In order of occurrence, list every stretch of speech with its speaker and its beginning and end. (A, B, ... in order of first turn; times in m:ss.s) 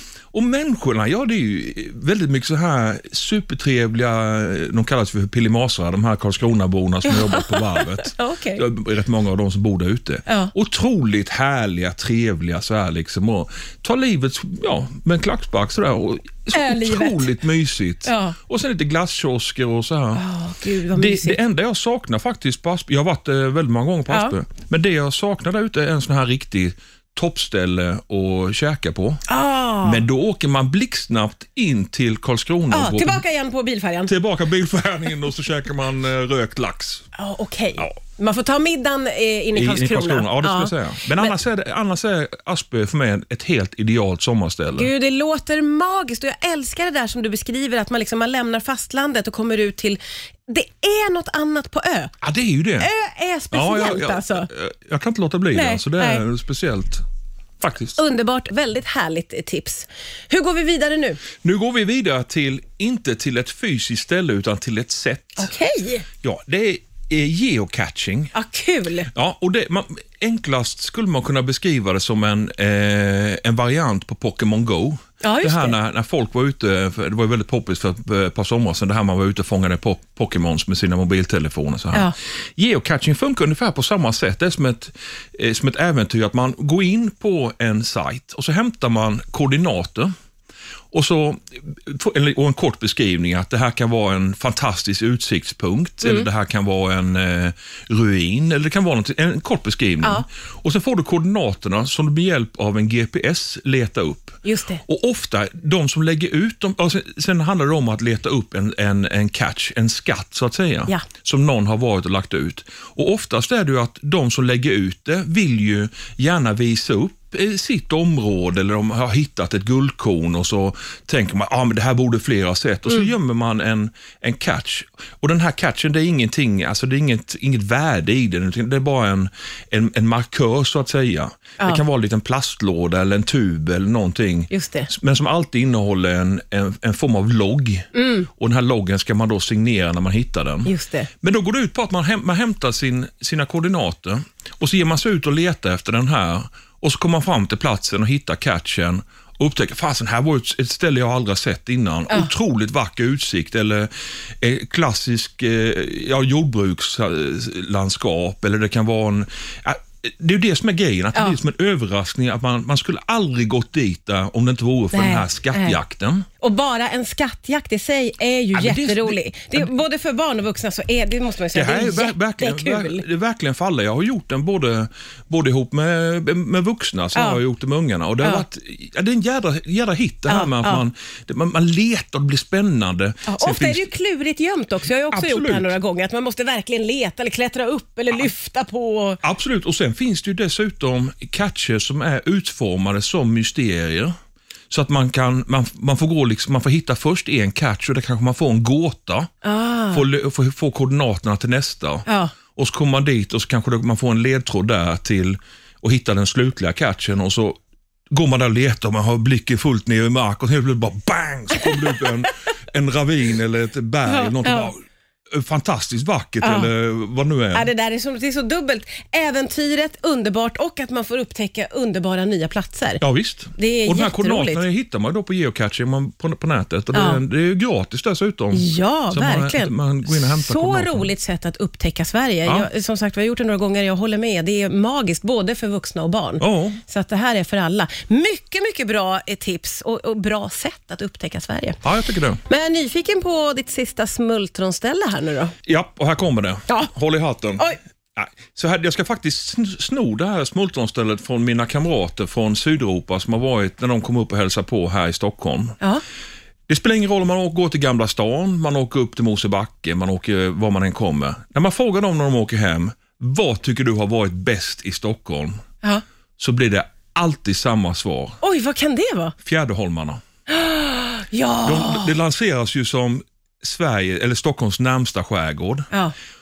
0:00.3-0:20.2 A
0:07.0-0:08.6 B
0:10.3-0:10.5 B
0:16.5-0:17.3 B
0:18.0-0:18.4 B
0:20.1-0:21.4 B
0:20.9-0:29.2 A
0:24.1-0:24.3 B
0:29.3-0:30.0 B
0:29.8-0:33.2 A
0:32.7-0:34.1 B
0:34.1-0:37.0 A
0:37.1-0:41.3 B
0:39.5-0:44.9 A
0:44.7-0:52.1 B
0:52.2-0:52.9 A
0:52.8-0:54.5 B
0:53.5-0:57.0 A
0:55.5-0:56.2 B
0:57.6-0:58.0 A
0:58.0-1:01.2 B
1:01.4-1:05.5 A
1:05.4-1:06.0 B
1:06.2-1:08.3 A
1:08.3-1:09.1 B
1:09.1-1:30.1 A
1:15.2-1:15.8 B
1:30.9-2:46.2 A
1:36.0-1:36.3 B
1:44.4-1:44.8 B
2:14.5-2:14.9 B
2:17.9-2:18.3 B
2:20.6-2:21.1 B
2:44.9-2:45.8 B
2:46.4-2:53.0 B
2:48.5-2:49.7 A
2:51.5-3:03.9 A
2:57.1-2:57.4 B
2:58.2-2:58.4 B
3:00.3-3:00.8 B
3:03.3-3:09.2 B
3:05.1-3:05.7 A
3:09.2-3:14.1 A
3:14.7-3:19.3 A
3:19.4-3:20.0 B
3:19.9-3:27.6 A
3:22.0-3:22.3 B
3:28.1-3:37.7 A
3:34.0-3:34.7 B
3:36.4-3:36.7 B
3:37.5-3:43.0 B
3:43.0-3:51.1 A
3:43.6-3:44.6 B
3:46.9-3:47.2 B
3:48.5-4:01.8 B
3:56.4-3:56.8 A
4:01.8-4:02.4 A
4:02.4-4:05.5 B
4:05.6-4:15.8 A
4:16.7-4:25.6 A
4:26.4-4:28.4 A
4:28.4-4:29.3 B
4:29.4-4:30.2 A
4:30.5-4:32.1 B
4:31.6-4:35.9 A